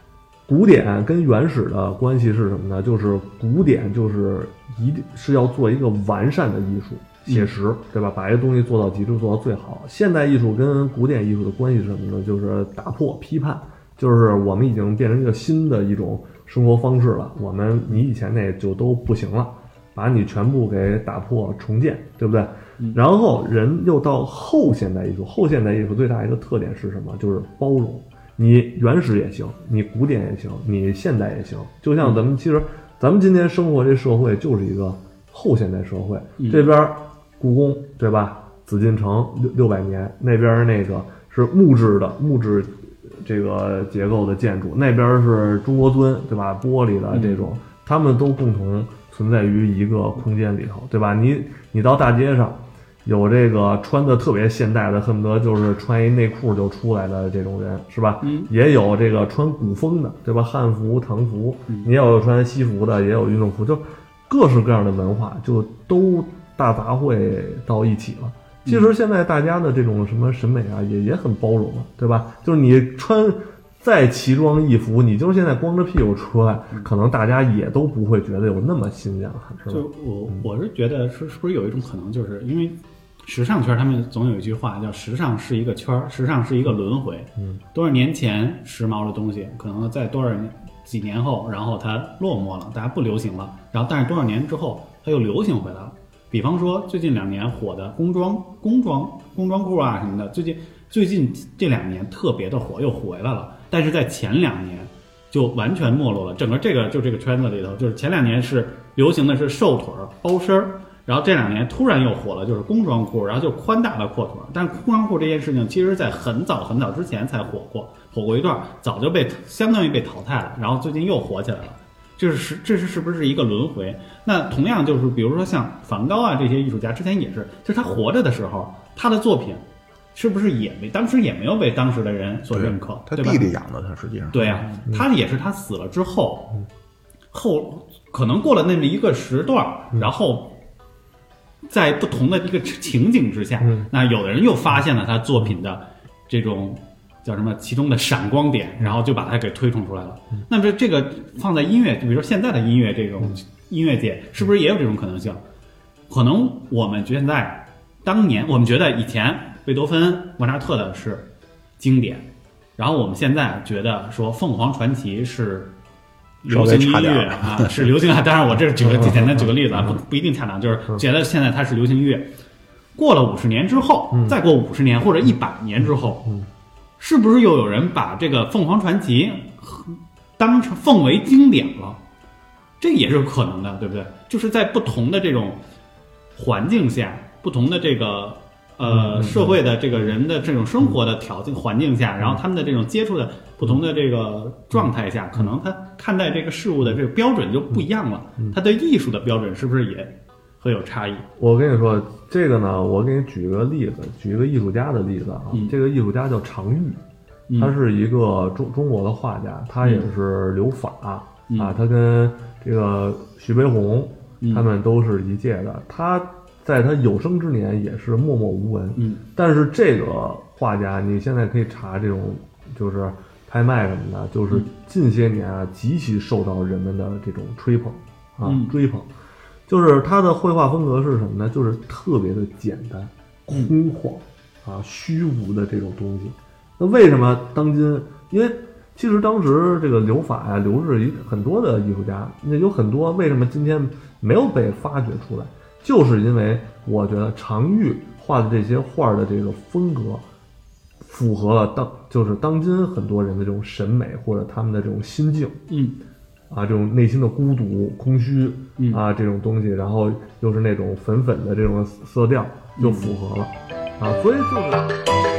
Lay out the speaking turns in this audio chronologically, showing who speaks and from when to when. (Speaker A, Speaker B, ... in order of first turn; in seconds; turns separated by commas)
Speaker A: 0.5-80.5, Speaker B: 36.4-36.7, Speaker B: 47.1-47.5, Speaker B: 58.2-58.5, Speaker B: 68.6-68.9, Speaker B: 79.7-133.5, Speaker C: 132.5-134.6, Speaker B: 134.3-136.5, Speaker B: 137.3-140.6, Speaker B: 141.7-155.4, Speaker A: 143.6-143.9, Speaker B: 156.1-165.7, Speaker B: 166.4-172.3, Speaker C: 166.5-167.9, Speaker A: 168.8-169.5, Speaker B: 172.9-176.2, Speaker A: 174.1-174.4, Speaker A: 175.8-176.5, Speaker B: 177.0-182.0, Speaker B: 182.8-185.6, Speaker B: 186.3-201.3, Speaker A: 188.9-190.1, Speaker A: 194.7-195.5, Speaker A: 201.4-207.0, Speaker B: 207.5-207.8, Speaker A: 207.6-229.1, Speaker B: 209.8-210.1, Speaker B: 211.5-211.8, Speaker B: 214.4-214.7, Speaker B: 219.0-219.2, Speaker B: 228.4-228.8, Speaker A: 229.7-250.2, Speaker B: 233.5-233.8, Speaker A: 251.0-255.6, Speaker B: 255.7-256.0, Speaker A: 256.5-264.9, Speaker B: 258.8-259.0, Speaker B: 262.8-263.1